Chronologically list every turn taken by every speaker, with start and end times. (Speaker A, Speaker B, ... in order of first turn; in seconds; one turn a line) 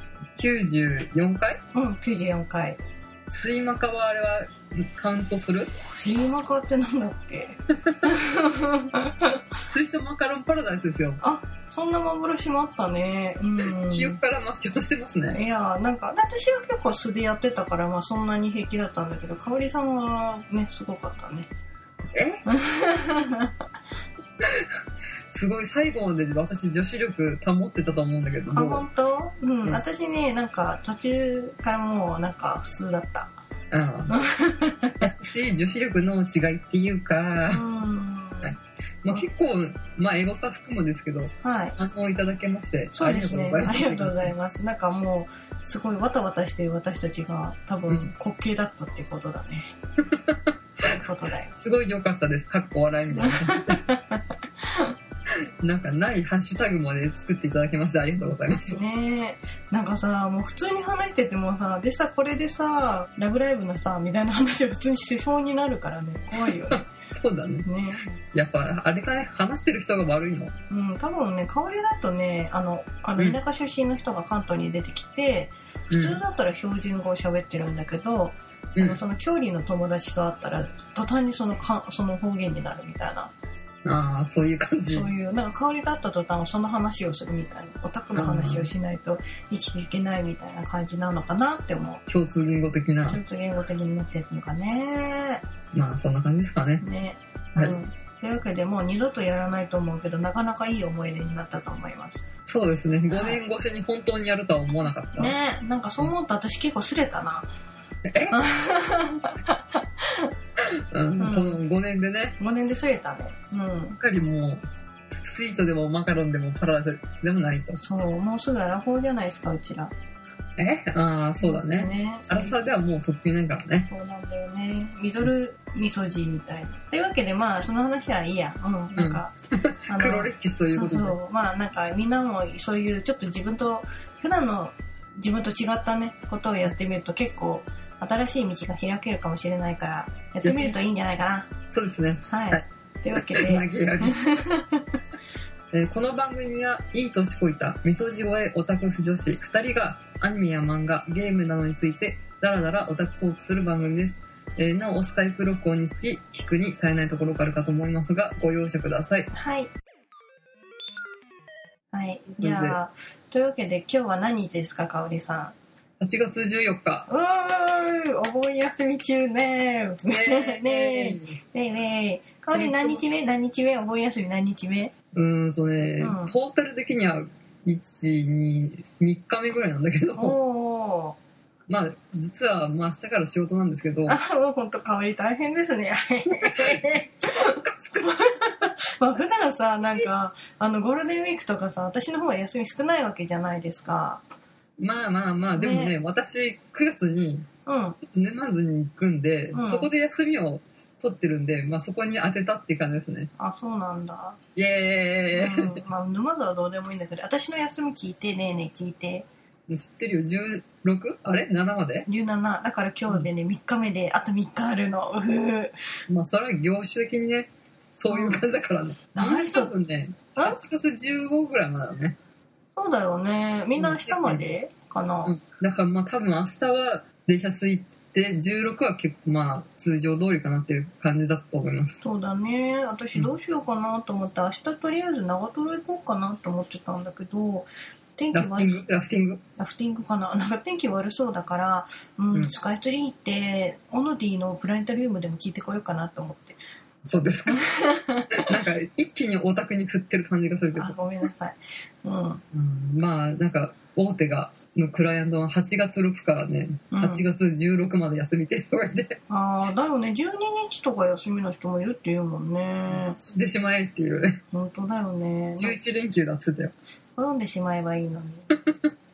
Speaker A: 0.4-1.6
Speaker B: 1.7-2.8
Speaker A: 3.3-5.7
Speaker B: 5.9-9.4
Speaker A: 9.7-11.2
Speaker B: 11.2-14.2
Speaker A: 13.7-15.4
Speaker B: 15.3-21.5
Speaker A: 22.1-22.4
Speaker B: 22.4-23.5
Speaker A: 24.4-24.8
Speaker A: 25.3-28.8
Speaker B: 28.5-33.4
Speaker A: 33.7-34.1
Speaker B: 34.1-35.1
Speaker A: 35.0-37.6
Speaker B: 37.5-38.6
Speaker A: 38.4-44.3
Speaker B: 41.4-41.8
Speaker B: 42.9-49.8
Speaker A: 50.1-51.0
Speaker B: 50.9-51.5
Speaker A: 51.6-53.8
Speaker B: 53.1-54.9
Speaker A: 55.3-58.8
Speaker B: 58.4-66.9
Speaker A: 66.4-67.7
Speaker B: 67.6-68.1
Speaker A: 68.2-70.5
Speaker B: 70.7-83.3
Speaker A: 75.9-76.2
Speaker A: 78.7-79.0
Speaker A: 83.8-85.1
Speaker B: 84.9-92.0
Speaker A: 88.1-88.7
Speaker A: 92.1-93.2
Speaker B: 93.1-95.4
Speaker A: 95.7-96.8
Speaker B: 96.8-102.2
Speaker A: 102.5-105.3
Speaker B: 103.1-103.4
Speaker B: 105.2-107.5
Speaker A: 108.0-108.4
Speaker B: 108.3-110.3
Speaker A: 110.6-112.3
Speaker B: 111.2-111.6
Speaker B: 112.4-114.0
Speaker A: 114.0-114.6
Speaker A: 115.2-117.8
Speaker B: 117.8-119.9
Speaker A: 120.6-123.9
Speaker B: 121.4-122.5
Speaker B: 123.9-129.3
Speaker A: 128.9-131.2
Speaker B: 129.9-141.5
Speaker A: 140.4-140.8
Speaker A: 141.7-144.2
Speaker B: 142.3-144.9
Speaker A: 145.7-159.3
Speaker B: 159.3-159.7
Speaker B: 161.9-165.5
Speaker A: 162.4-162.8
Speaker A: 166.0-167.1
Speaker B: 167.1-174.9
Speaker A: 170.1-171.4
Speaker A: 172.5-173.0
Speaker A: 175.1-180.4
Speaker B: 176.0-176.3
Speaker B: 180.2-181.2
Speaker A: 181.7-184.2
Speaker B: 184.1-194.2
Speaker A: 186.4-188.2
Speaker A: 194.8-197.5
Speaker B: 195.6-195.9
Speaker B: 197.7-198.0
Speaker A: 198.0-203.3
Speaker B: 199.5-199.9
Speaker B: 203.4-204.4
Speaker A: 204.6-205.8
Speaker B: 205.3-209.3
Speaker A: 209.7-212.1
Speaker B: 212.1-215.7
Speaker A: 216.1-222.2
Speaker B: 218.1-218.4
Speaker B: 219.1-219.7
Speaker B: 222.8-225.3
Speaker A: 223.8-224.4
Speaker A: 225.2-232.0
Speaker B: 232.0-238.8
Speaker A: 238.3-239.4
Speaker B: 239.6-246.6
Speaker A: 247.0-247.7
Speaker B: 247.4-248.5
Speaker A: 248.3-250.9
Speaker B: 250.7-252.4
Speaker A: 252.5-259.2
Speaker B: 256.9-257.2
Speaker B: 259.3-263.2
Speaker A: 262.9-264.4
Speaker B: 264.5-265.8
Speaker A: 265.6-266.7
Speaker B: 267.2-268.5
Speaker A: 268.5-268.9